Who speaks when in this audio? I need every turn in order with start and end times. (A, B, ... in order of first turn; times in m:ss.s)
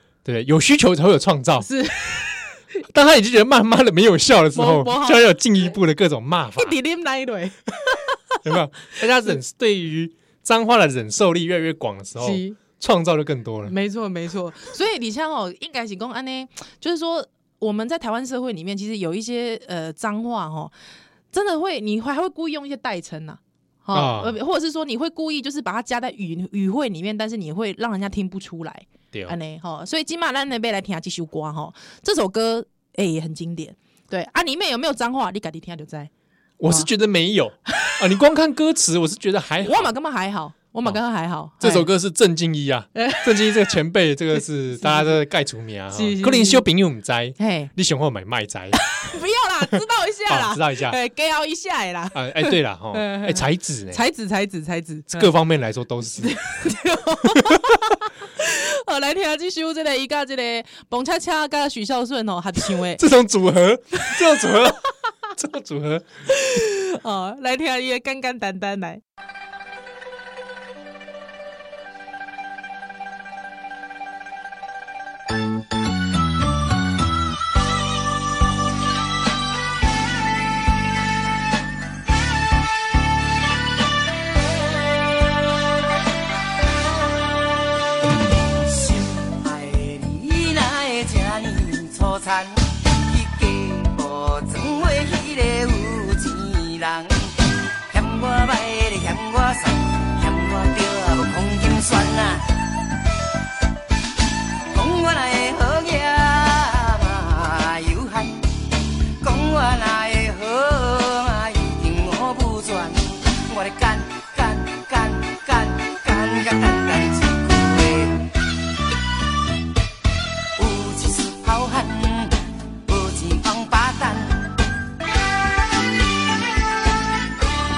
0:00.2-0:01.7 A
0:01.6-0:02.6 B
0:02.9-0:06.7 A
0:04.5-0:05.7 B
0:06.6-0:09.0 B
0:08.4-0:13.7 A
0:12.2-0:12.6 B
0:13.6-0:20.7 B
0:21.3-0:36.1 B
0:23.9-0:24.4 A
0:36.6-0:39.9 A
0:39.6-0:41.9 B
0:41.6-0:48.9 A
0:42.9-0:43.5 B
0:44.3-0:45.2 B
0:45.9-0:46.6 B
0:47.4-0:47.7 B
0:48.7-0:55.3 B
0:49.7-0:51.0 A
0:52.1-0:54.0 A
0:55.1-0:56.4 A
0:56.2-1:03.0 B
1:02.8-1:04.8 A
1:04.0-1:04.7 B
1:05.4-1:06.0 A
1:06.3-1:09.0 B
1:28.6-1:37.3 C
1:37.9-1:42.5 C
1:44.7-1:48.5 C
1:49.2-1:58.2 C
2:00.6-2:04.6 C